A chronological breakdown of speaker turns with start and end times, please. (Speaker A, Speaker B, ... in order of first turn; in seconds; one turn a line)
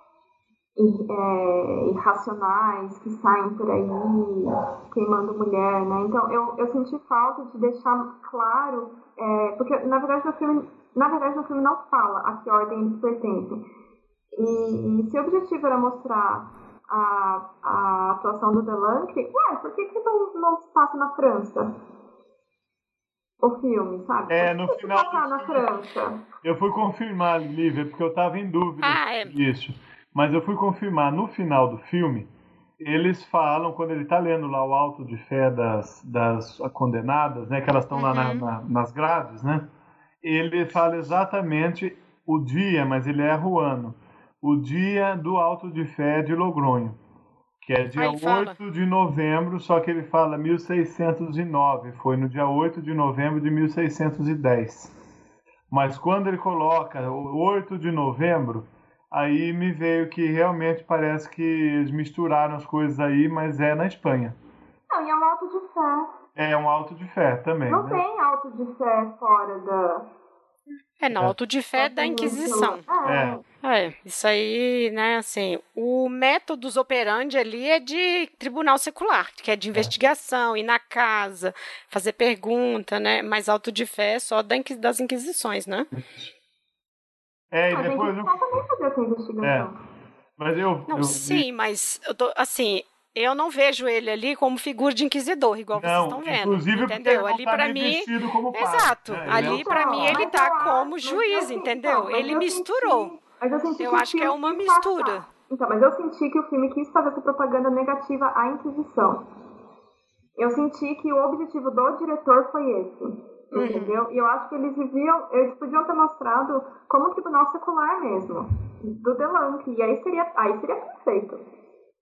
Speaker A: 0.8-13.7
Speaker A: 14.3-21.7
Speaker A: 23.4-26.2
Speaker B: 24.3-25.7
Speaker B: 26.4-39.7
Speaker C: 28.8-29.4
Speaker C: 37.9-38.5
Speaker B: 40.2-47.0
Speaker B: 47.6-54.9
Speaker C: 48.0-48.5
Speaker B: 55.7-64.4
Speaker A: 64.9-66.1
Speaker B: 66.3-68.0
Speaker A: 67.7-70.1
Speaker C: 71.0-72.8
Speaker A: 71.8-73.4
Speaker B: 73.0-73.4
Speaker C: 73.6-85.9
Speaker B: 87.5-88.4
Speaker A: 87.7-89.8
Speaker B: 89.4-89.7
Speaker B: 90.4-91.5
Speaker C: 90.9-103.1
Speaker B: 95.7-100.3
Speaker A: 99.3-109.2
Speaker C: 103.8-105.2
Speaker A: 110.4-121.4
Speaker C: 113.5-114.0